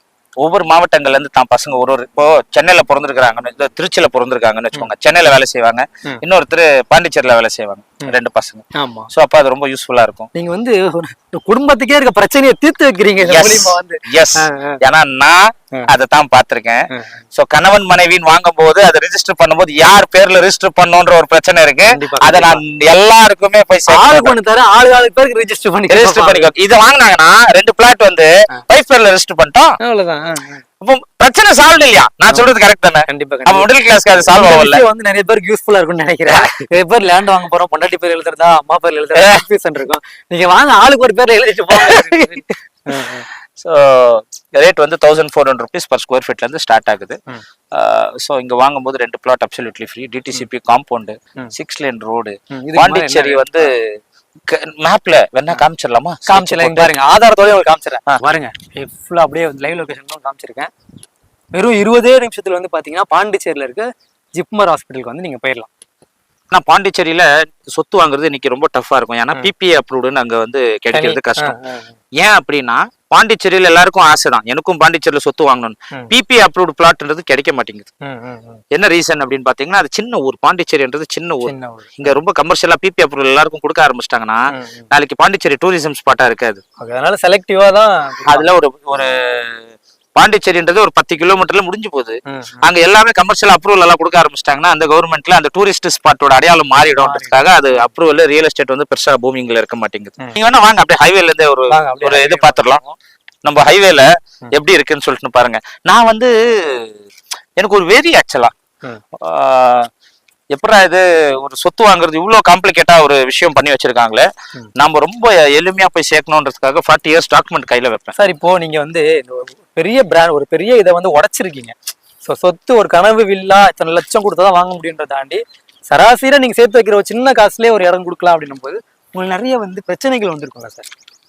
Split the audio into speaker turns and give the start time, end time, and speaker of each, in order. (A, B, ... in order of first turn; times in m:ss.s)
0:00.4-0:10.3 A
0:08.7-0:09.1 B
0:10.3-0:14.8 B
0:13.2-0:24.4 A
0:21.9-0:22.6 B
0:23.9-0:26.5 B
0:25.9-0:29.7 A
0:29.8-0:30.6 B
0:30.8-0:34.8 A
0:33.1-0:43.3 B
0:36.3-0:36.5 A
0:39.1-0:39.4 A
0:41.7-0:47.2 A
0:47.7-0:56.9 A
0:52.5-0:53.7 B
0:56.3-1:00.7 B
1:01.5-1:05.7 B
1:06.5-1:11.6 A
1:10.9-1:11.9 B
1:12.2-1:17.9 A
1:18.0-1:18.6 B
1:18.7-1:26.6 A
1:21.4-1:22.1 B
1:24.5-1:24.9 B
1:26.8-1:28.5 B
1:28.3-1:42.8 A
1:32.3-1:32.6 B
1:37.0-1:37.9 B
1:41.7-1:43.0 B
1:43.4-1:46.9 A
1:47.6-1:48.5 A
1:49.2-1:49.9 A
1:50.5-1:58.1 A
1:58.2-2:01.7 B
2:02.2-2:10.9 B